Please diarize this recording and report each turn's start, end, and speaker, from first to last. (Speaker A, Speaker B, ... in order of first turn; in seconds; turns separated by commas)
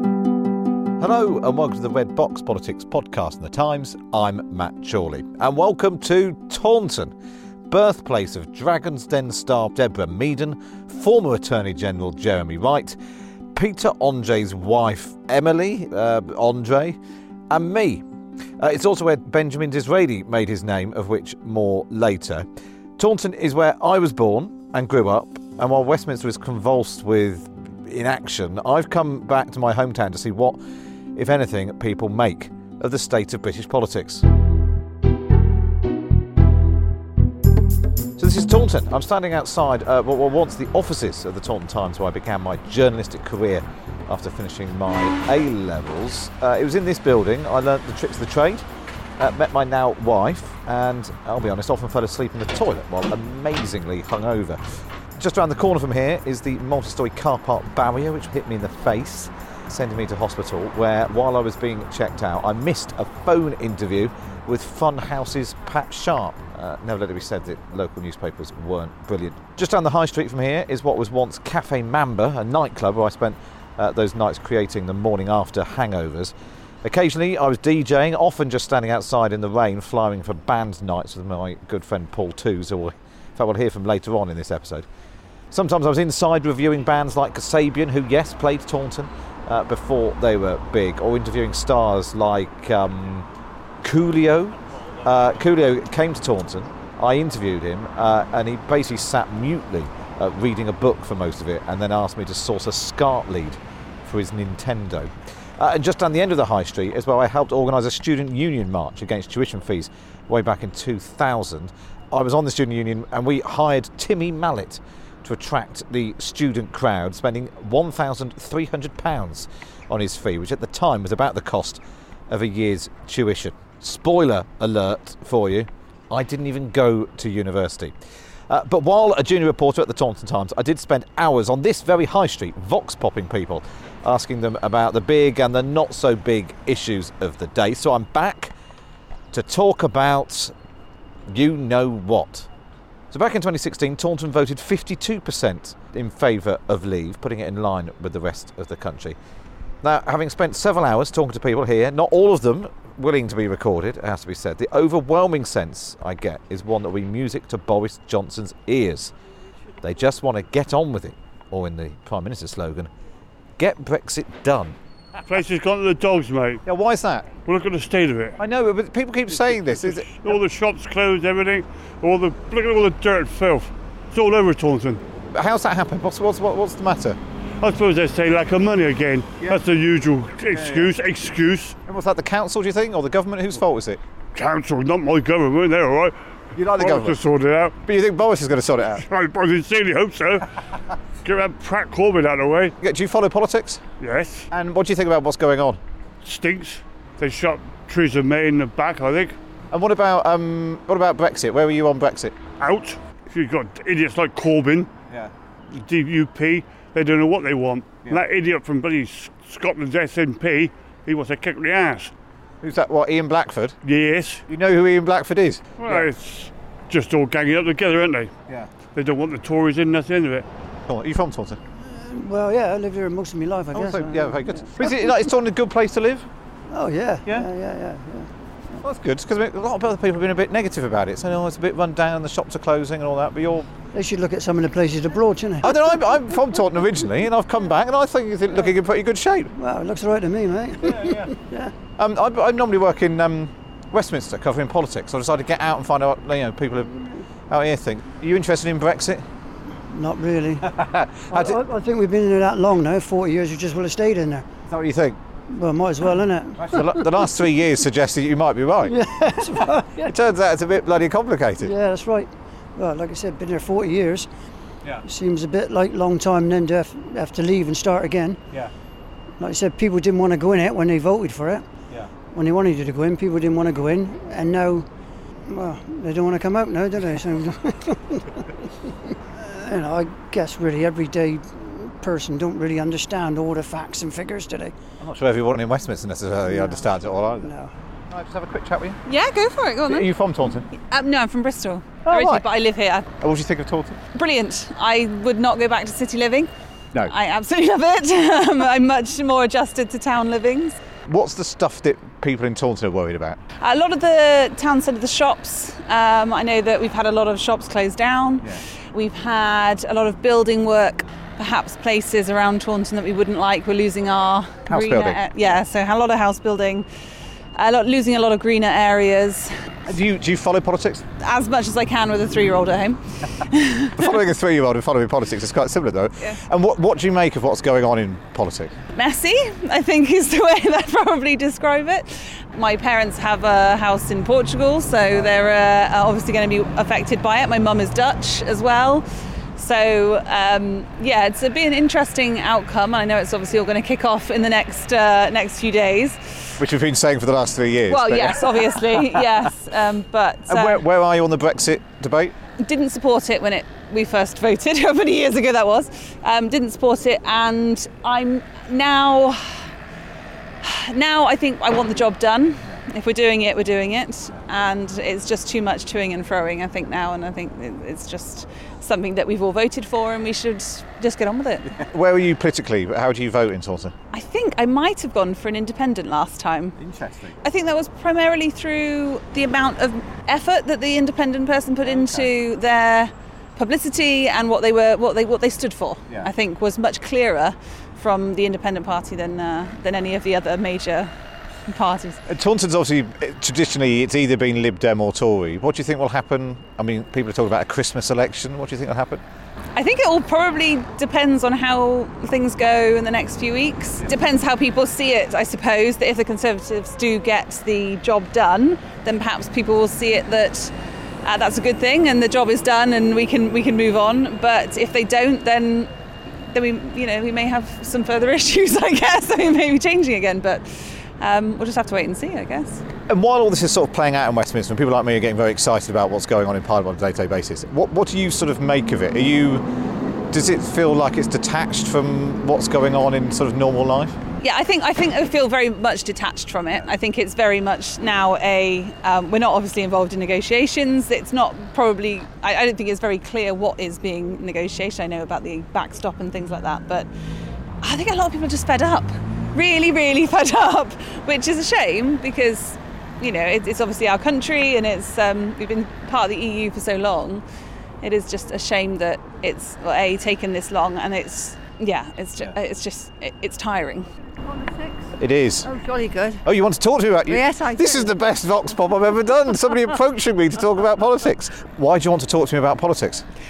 Speaker A: 1.0-7.1, Speaker A: 7.7-13.0, Speaker A: 13.5-17.0, Speaker A: 17.5-18.1, Speaker A: 18.6-22.5, Speaker A: 23.0-30.6, Speaker A: 31.1-34.3, Speaker A: 38.2-48.6, Speaker A: 49.2-54.6, Speaker A: 55.1-84.9, Speaker A: 85.5-93.3, Speaker A: 93.8-127.9, Speaker A: 128.5-138.5, Speaker A: 139.3-140.5, Speaker A: 141.3-142.5, Speaker A: 143.1-149.2, Speaker A: 149.8-159.1, Speaker A: 159.8-162.9, Speaker A: 163.6-164.8, Speaker B: 165.2-166.6, Speaker A: 166.7-167.3, Speaker B: 167.4-168.4, Speaker A: 168.4-170.4, Speaker B: 169.8-175.0, Speaker A: 175.3-177.2, Speaker B: 177.6-181.8, Speaker A: 180.5-180.9, Speaker A: 181.9-184.0, Speaker B: 184.3-186.2, Speaker A: 186.6-187.2, Speaker B: 186.7-187.8, Speaker A: 187.8-189.0, Speaker B: 189.0-190.5, Speaker B: 191.2-192.8, Speaker A: 192.8-193.8, Speaker B: 194.0-194.5, Speaker A: 194.5-195.8, Speaker B: 196.2-199.4, Speaker A: 199.7-202.4, Speaker B: 202.6-204.9, Speaker B: 205.7-212.1, Speaker A: 212.6-213.8, Speaker B: 213.8-214.4, Speaker A: 214.5-216.1, Speaker B: 215.8-218.3, Speaker B: 218.9-220.5, Speaker A: 220.9-221.6, Speaker C: 221.8-225.2, Speaker A: 223.7-226.3, Speaker C: 226.7-228.3, Speaker A: 228.8-233.7, Speaker C: 233.9-235.8, Speaker A: 235.6-239.5, Speaker C: 239.6-241.7, Speaker A: 240.9-241.3, Speaker A: 242.0-249.3, Speaker C: 249.9-250.7, Speaker A: 250.6-251.6, Speaker C: 251.3-254.5, Speaker A: 254.7-255.2, Speaker C: 255.5-257.2, Speaker A: 256.6-259.0, Speaker C: 258.8-260.2, Speaker A: 259.5-261.7, Speaker C: 261.6-264.3, Speaker C: 265.0-268.4, Speaker C: 269.4-271.7, Speaker C: 272.3-274.9, Speaker C: 275.5-278.7, Speaker C: 279.4-284.8, Speaker A: 285.0-287.5, Speaker C: 286.5-287.7, Speaker A: 288.1-289.0, Speaker D: 289.1-290.1, Speaker A: 289.9-290.7, Speaker D: 290.8-293.1, Speaker A: 292.1-292.4, Speaker A: 293.2-294.0, Speaker D: 294.1-300.8, Speaker A: 301.1-303.4, Speaker D: 303.6-316.9, Speaker A: 314.7-315.2, Speaker D: 317.6-319.5, Speaker A: 319.9-321.0, Speaker D: 321.2-324.2, Speaker A: 324.0-328.8, Speaker D: 328.9-339.0, Speaker D: 339.6-346.6, Speaker A: 346.6-349.4, Speaker D: 347.9-350.8, Speaker A: 350.5-352.4, Speaker D: 352.6-359.7, Speaker D: 360.6-371.8, Speaker A: 371.8-373.9, Speaker D: 374.1-376.8, Speaker A: 376.8-377.4, Speaker D: 377.4-391.1, Speaker A: 381.8-382.3, Speaker D: 391.7-392.2, Speaker A: 392.3-399.2, Speaker D: 399.8-415.9, Speaker D: 416.5-422.8, Speaker A: 423.1-429.7, Speaker A: 430.3-434.2, Speaker D: 434.4-447.1, Speaker D: 447.8-457.4, Speaker D: 458.0-464.1, Speaker E: 464.5-465.1, Speaker A: 465.2-465.7, Speaker E: 465.6-466.4, Speaker A: 466.4-473.3, Speaker E: 467.3-468.2